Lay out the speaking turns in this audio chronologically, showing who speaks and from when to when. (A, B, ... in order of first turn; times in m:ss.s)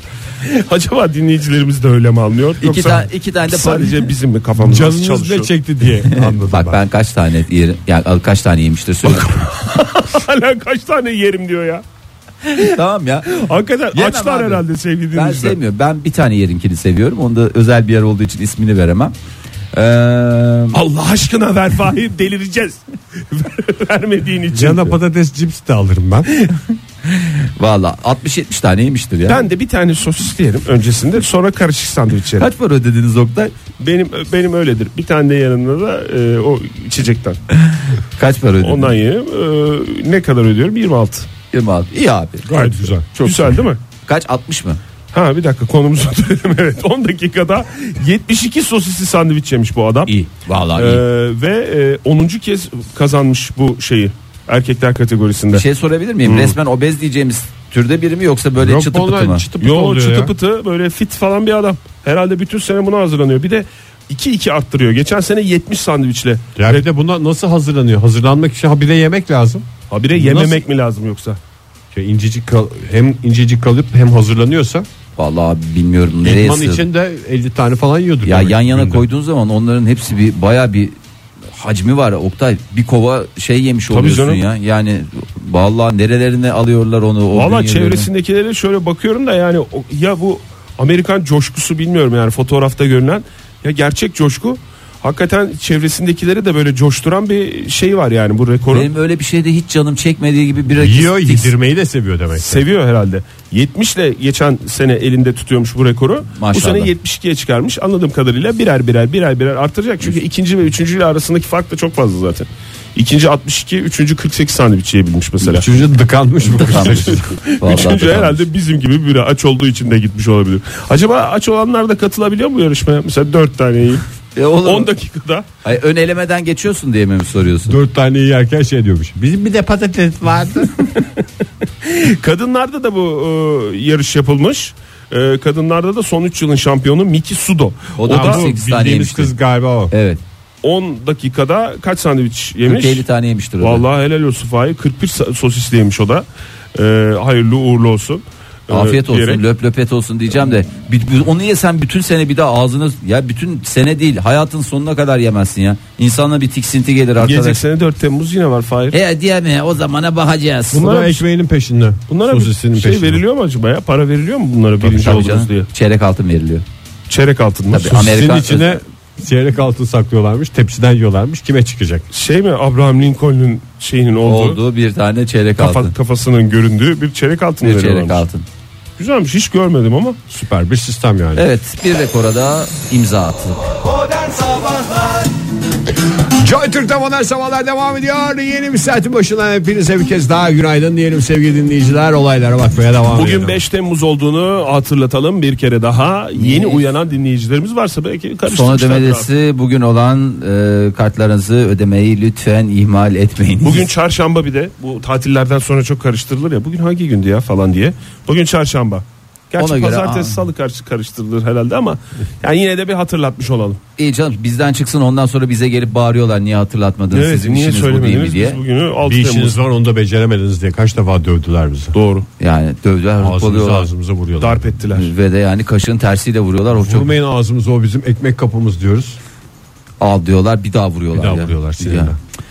0:00.4-0:05.5 A
0:02.6-0:04.1 B
0:04.6-0:06.8 C
0:06.0-0:09.4 B
0:09.0-0:11.8 A
0:12.5-0:19.1 B
0:13.2-0:15.6 A
0:19.7-0:20.8 B
0:20.7-0:25.0 A
0:24.5-0:26.3 C
0:27.0-0:29.4 B
0:29.3-0:32.5 A
0:32.4-0:33.5 B
0:33.8-0:37.4 A
0:38.2-0:38.9 B
0:38.6-0:41.3 A
0:41.5-0:43.5 B
0:42.5-0:43.1 C
0:42.5-0:43.8 A
0:44.0-0:44.8 B
0:45.1-0:50.1 A
0:50.0-0:51.0 B
0:50.7-0:55.6 A
0:55.5-0:59.4 B
0:56.2-0:56.6 A
0:58.6-1:00.3 C
0:59.6-1:06.8 A
1:06.6-1:10.6 C
1:09.9-1:11.4 A
1:11.9-1:14.8 C
1:15.2-1:16.8 B
1:16.2-1:19.0 C
1:18.2-1:21.0 B
1:21.5-1:28.1 B
1:23.9-1:24.4 A
1:27.3-1:38.9 A
1:38.7-1:41.5 B
1:40.8-1:42.6 C
1:42.4-1:55.7 A
1:46.3-1:46.9 B
1:55.4-1:57.3 C
1:56.4-1:58.5 B
1:56.7-2:04.0 A
2:04.4-2:04.9 B
2:04.6-2:05.4 A
2:05.6-2:07.8 B
2:07.6-2:10.9 C
2:11.8-2:18.5 A
2:18.0-2:19.3 B
2:18.1-2:19.9 C
2:19.9-2:20.2 B
2:20.6-2:23.0 A
2:22.6-2:23.8 B
2:23.6-2:29.4 A
2:28.7-2:37.6 B
2:37.2-2:39.0 A
2:38.9-2:40.9 B
2:40.7-2:41.2 A
2:40.7-2:43.2 C
2:42.1-2:45.7 A
2:44.8-2:46.6 B
2:47.1-2:48.0 A
2:47.7-2:48.8 B
2:47.8-2:52.0 C
2:52.1-2:54.6 A
2:54.2-2:55.9 B
2:55.6-2:58.2 A
2:57.6-2:58.4 B
2:59.0-3:00.2 A
3:00.3-3:01.4 C
3:01.4-3:05.2 B
3:06.2-3:13.6 C
3:13.1-3:19.3 A
3:16.3-3:16.8 B
3:18.5-3:23.9 B
3:23.6-3:33.8 A
3:29.6-3:30.4 B
3:34.0-3:38.6 B
3:37.1-3:39.6 A
3:39.0-3:41.9 C
3:41.9-3:42.3 A
3:42.4-3:43.9 B
3:43.2-3:44.8 C
3:44.4-3:45.1 A
3:44.9-3:47.1 B
3:46.7-3:49.2 C
3:50.0-3:52.1 B
3:51.1-3:52.2 C